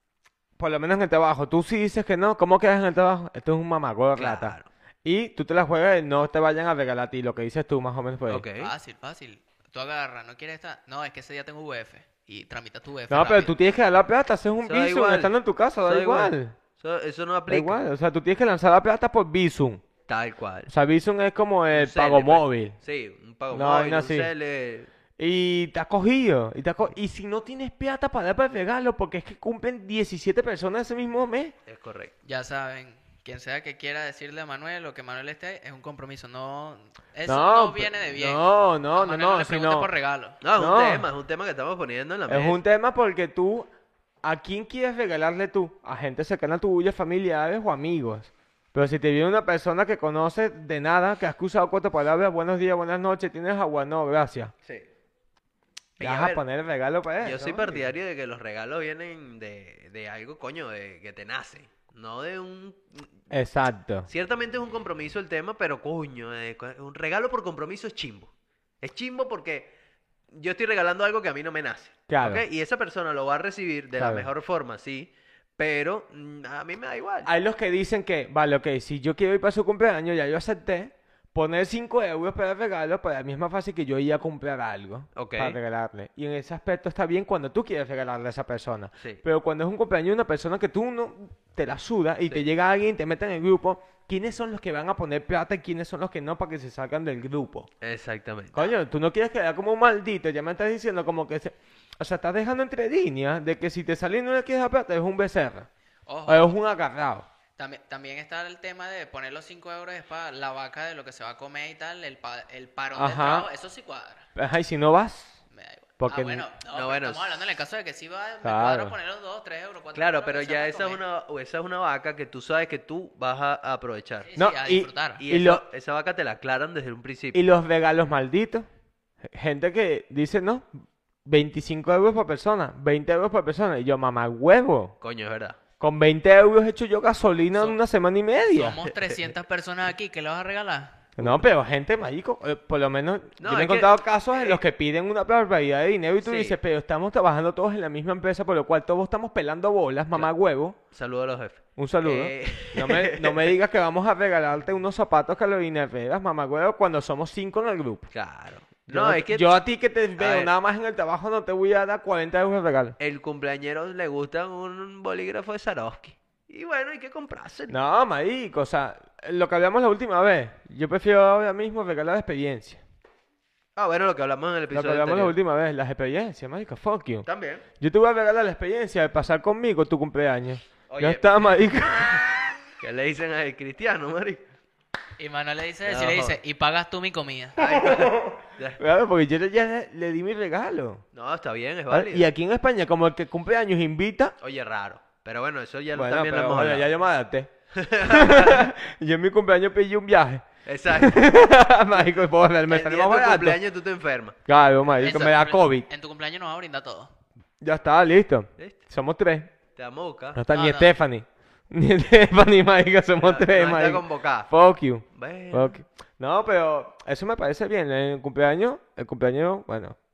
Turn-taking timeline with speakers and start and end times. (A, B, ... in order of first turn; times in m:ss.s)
0:00.6-0:08.4 A
0:04.2-0:04.7 B
0:08.3-0:08.7 B
0:08.6-0:13.5 C
0:13.1-0:16.6 A
0:14.6-0:17.8 B
0:17.5-0:19.8 A
0:20.1-0:20.7 B
0:20.7-0:22.8 A
0:21.7-0:24.9 B
0:23.5-0:24.3 A
0:25.2-0:31.5 A
0:31.7-0:32.1 B
0:32.2-0:40.4 C
0:37.3-0:39.9 A
0:40.4-0:42.6 B
0:40.6-0:41.1 A
0:42.3-0:43.7 A
0:44.2-0:54.5 A
0:56.0-0:57.9 A
0:56.0-0:56.4 B
0:57.2-1:03.1 B
1:03.3-1:04.1 A
1:04.1-1:08.3 B
1:08.8-1:09.7 B
1:10.3-1:17.3 B
1:12.1-1:12.4 A
1:14.0-1:14.3 A
1:17.3-1:37.7 A
1:25.2-1:25.6 B
1:37.8-1:38.7 B
1:38.5-1:45.7 A
1:46.1-1:46.5 C
1:46.3-1:47.3 A
1:47.6-1:54.3 C
1:53.0-1:53.5 A
1:54.4-1:55.4 A
1:55.5-2:01.0 C
1:56.0-1:56.5 A
1:56.7-1:57.5 B
1:58.4-1:59.0 A
1:59.9-2:04.3 B
2:04.3-2:05.2 C
2:04.4-2:05.6 A
2:05.2-2:07.4 B
2:07.3-2:08.7 A
2:09.2-2:10.7 A
2:11.3-2:15.0 A
2:15.0-2:15.6 B
2:15.8-2:18.8 A
2:18.5-2:21.0 C
2:21.2-2:30.8 A
2:23.4-2:24.6 B
2:26.2-2:26.6 B
2:30.9-2:33.5 B
2:31.8-2:38.1 A
2:38.1-2:39.6 B
2:38.9-2:43.0 A
2:40.2-2:40.5 B
2:43.0-2:47.7 B
2:47.7-2:52.8 A
2:53.8-2:55.4 B
2:54.7-3:02.6 A
2:57.3-2:57.6 B
3:00.9-3:01.2 B
3:02.8-3:04.4 B
3:05.2-3:07.6 C
3:05.9-3:06.4 B
3:07.6-3:08.8 B
3:07.6-3:11.0 A
3:11.1-3:12.3 B
3:11.9-3:14.4 A
3:14.4-3:16.9 B
3:15.9-3:17.5 A
3:17.7-3:18.7 B
3:18.0-3:23.6 A
3:20.7-3:22.0 B
3:22.7-3:24.4 B
3:24.5-3:25.9 A
3:25.0-3:27.1 C
3:27.6-3:29.5 A
3:29.8-3:30.4 B
3:30.4-3:40.0 A
3:30.5-3:30.9 C
3:33.2-3:34.5 B
3:35.1-3:35.8 B